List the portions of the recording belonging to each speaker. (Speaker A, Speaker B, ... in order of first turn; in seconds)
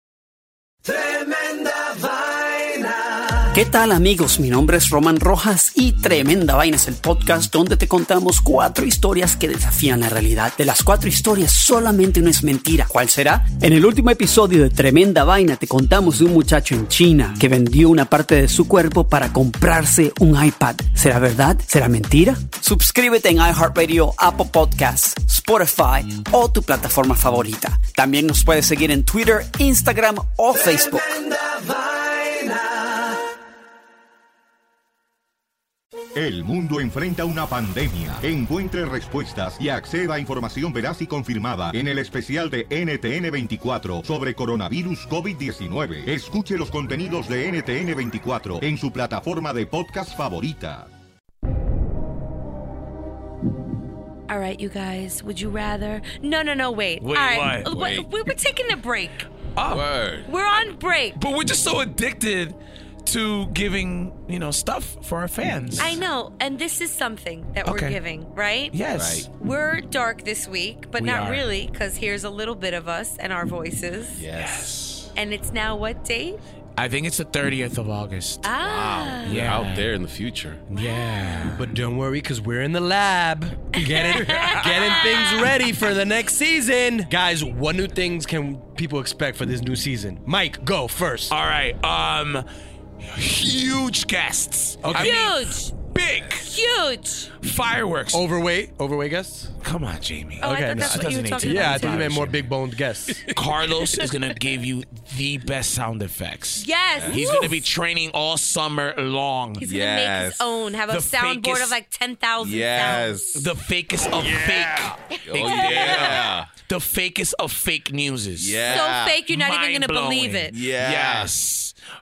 Speaker A: 3.5-31.0
Speaker B: 36.1-50.9
Speaker C: 54.3-59.3, 60.2-61.2, 65.8-68.8, 69.3-74.2, 75.1-76.4, 78.4-79.4, 80.7-81.5, 83.7-85.5, 94.9-95.7, 96.4-97.3, 100.4-102.1, 106.6-107.6, 109.6-113.2, 115.5-116.3, 118.6-120.6
Speaker D: 57.0-57.7, 59.5-59.9, 61.1-66.0, 67.6-68.0, 68.7-69.3, 71.0-71.5, 74.3-75.1, 76.8-78.5, 79.2-79.9, 80.7-81.7, 84.4-85.0, 91.3-92.5, 93.1-96.5, 97.4-98.2, 99.6-102.4, 103.1-109.6, 110.9-111.8, 113.3-121.7
Speaker E: 57.7-58.1, 59.7-60.3, 68.9-69.3, 74.1-74.7, 78.6-80.6, 107.0-107.5, 109.6-110.5, 112.4-113.4, 114.1-116.5, 118.4-119.2, 120.5-121.3
Speaker F: 81.5-91.3, 94.8-95.3, 98.1-99.5, 100.4-103.6